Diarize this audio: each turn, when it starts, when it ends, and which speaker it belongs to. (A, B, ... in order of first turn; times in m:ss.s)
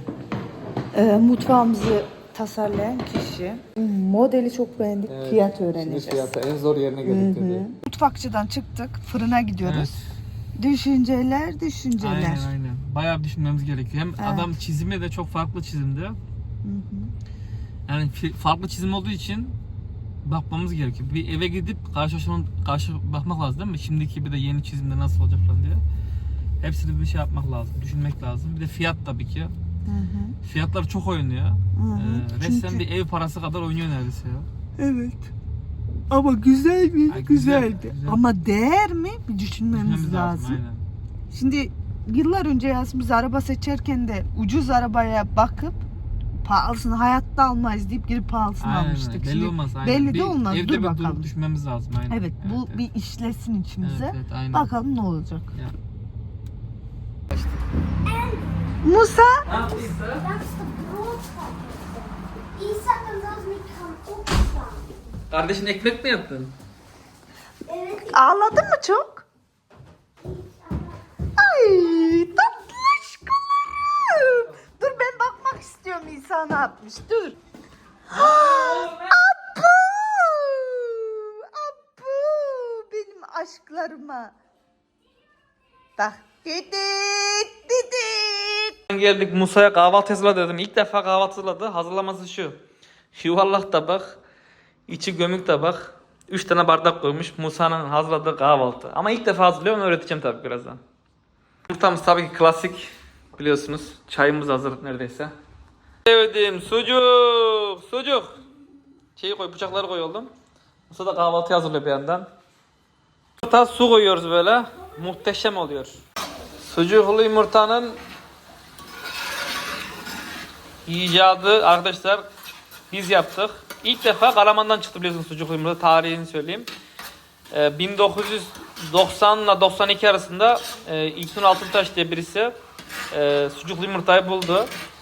0:00.9-0:06.3 A
0:05.1-0:07.6 B
0:07.0-0:10.0 A
0:09.6-0:10.0 B
0:10.6-0:12.5 A
0:12.0-0:16.2 B
0:14.2-0:14.6 A
0:16.6-0:17.1 A
0:17.9-0:19.6 B
0:20.2-0:25.8 B
0:26.6-0:29.5 B
0:29.8-0:30.4 A
0:30.4-0:34.5 B
0:31.7-0:32.8 A
0:34.8-0:35.3 A
0:36.1-0:40.6 A
0:37.1-0:38.2 B
0:39.7-0:40.8 B
0:41.3-0:45.8 A
0:46.4-0:51.3 A
0:48.6-0:52.8 B
0:52.1-0:55.5 A
0:53.8-0:54.7 B
0:57.3-0:57.6 B
0:58.0-0:58.8 C
0:58.8-0:59.5 A
0:59.5-1:00.2 B
0:59.5-1:04.9 C
1:05.3-1:06.5 B
1:07.6-1:08.3 C
1:08.1-1:09.2 A
1:10.2-1:11.0 C
1:11.4-1:17.4 A
1:14.0-1:15.0 B
1:18.1-1:24.3 A
1:18.1-1:19.1 B
1:26.0-1:28.8 A
1:28.9-1:32.6 B
1:33.1-1:34.2 B
1:34.9-1:40.8 B
1:41.7-1:45.3 B
1:46.0-1:48.4 B
1:49.2-1:50.3 B
1:50.9-1:52.3 B
1:53.4-1:56.0 B
1:56.6-1:58.0 B
2:00.8-2:02.3 B
2:02.9-2:06.7 B
2:07.5-2:12.5 B
2:13.1-2:14.7 B